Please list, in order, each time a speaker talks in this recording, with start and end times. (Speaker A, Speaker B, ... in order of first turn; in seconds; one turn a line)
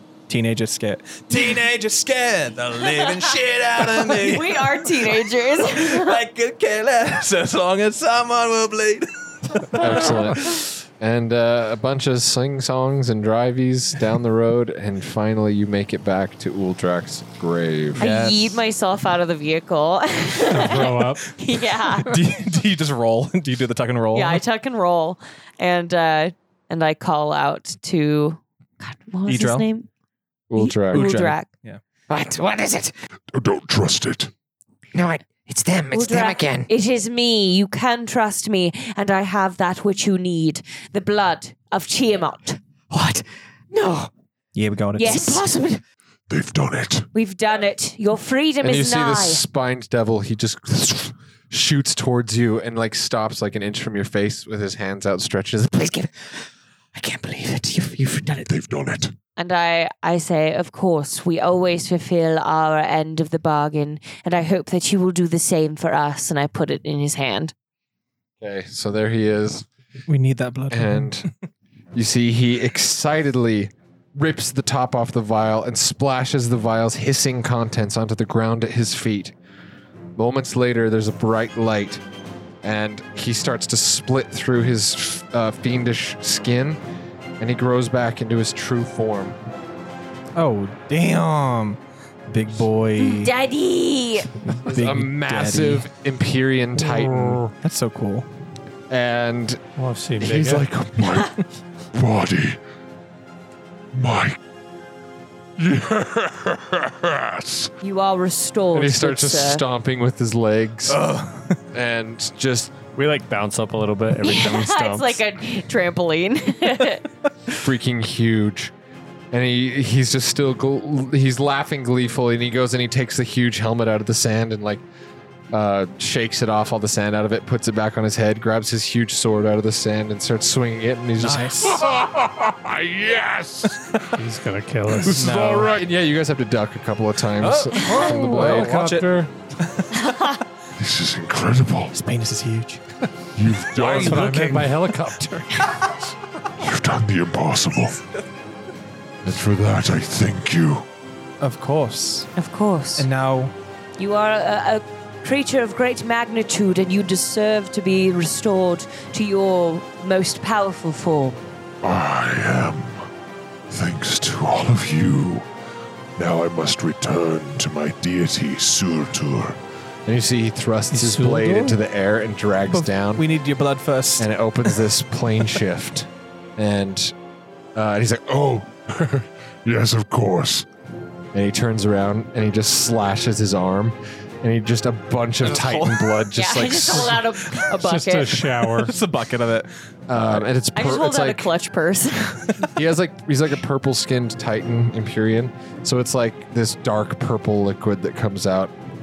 Speaker A: 0.3-10.6
Speaker B: 3.9-6.2
Speaker C: 9.8-18.6
Speaker B: 18.0-22.1
Speaker D: 20.5-21.2
Speaker A: 21.9-24.4
Speaker B: 24.1-29.9
Speaker A: 29.2-29.7
Speaker C: 30.5-31.1
Speaker B: 30.5-31.5
Speaker A: 30.9-31.8
Speaker E: 32.1-32.9
Speaker F: 33.3-34.3
Speaker E: 34.9-36.7
Speaker B: 35.9-42.6
Speaker E: 42.9-44.1
Speaker A: 44.5-45.1
Speaker B: 45.0-45.5
Speaker E: 45.0-45.8
Speaker F: 46.3-47.1
Speaker B: 47.1-49.4
Speaker C: 48.6-55.7
Speaker E: 55.7-56.3
Speaker E: 56.9-58.5
Speaker F: 58.4-59.1
Speaker B: 59.4-67.5
Speaker C: 68.4-69.7
Speaker A: 70.1-71.3
Speaker C: 70.7-71.3
Speaker C: 71.9-79.3
Speaker C: 80.2-82.0
Speaker C: 82.6-86.8
Speaker C: 87.4-89.4
Speaker A: 90.3-93.3
Speaker B: 93.0-94.3
Speaker A: 94.5-95.8
Speaker C: 94.6-97.4
Speaker D: 96.8-97.5
Speaker A: 97.6-98.3
Speaker C: 98.9-99.6
Speaker D: 99.8-100.7
Speaker C: 100.2-100.8
Speaker F: 100.8-101.3
Speaker F: 101.9-102.6
Speaker F: 103.9-104.4
Speaker F: 105.6-107.7
Speaker B: 107.8-109.6
Speaker C: 108.7-111.0
Speaker A: 110.9-111.6
Speaker C: 111.7-112.7
Speaker G: 112.9-115.2
Speaker B: 114.2-117.0
Speaker C: 117.6-118.7
Speaker C: 119.3-124.8
Speaker C: 125.5-131.6
Speaker A: 131.2-131.8
Speaker F: 131.7-133.8
Speaker D: 134.1-135.4
Speaker A: 135.0-135.8
Speaker F: 135.1-135.8
Speaker C: 135.7-138.7
Speaker A: 137.4-140.1
Speaker D: 137.7-139.3
Speaker F: 140.8-141.9
Speaker A: 141.9-142.8
Speaker F: 143.3-144.2
Speaker A: 143.8-144.3
Speaker D: 143.8-145.7
Speaker G: 143.8-144.7
Speaker F: 146.6-148.0
Speaker F: 149.2-150.8
Speaker A: 151.4-152.3
Speaker B: 152.3-153.1
Speaker A: 153.0-153.5
Speaker B: 154.0-161.4
Speaker F: 161.8-163.0
Speaker F: 163.7-165.5
Speaker F: 166.2-169.6
Speaker C: 170.1-173.2
Speaker D: 170.9-171.8
Speaker A: 172.7-174.9
Speaker C: 174.2-177.1
Speaker C: 177.7-178.3
Speaker F: 178.3-180.7
Speaker C: 181.3-187.2
Speaker A: 185.4-186.3
Speaker B: 186.3-188.4
Speaker A: 187.4-187.7
Speaker D: 187.8-188.9
Speaker A: 188.6-190.5
Speaker C: 190.1-191.5
Speaker B: 190.7-192.6
Speaker C: 192.7-198.7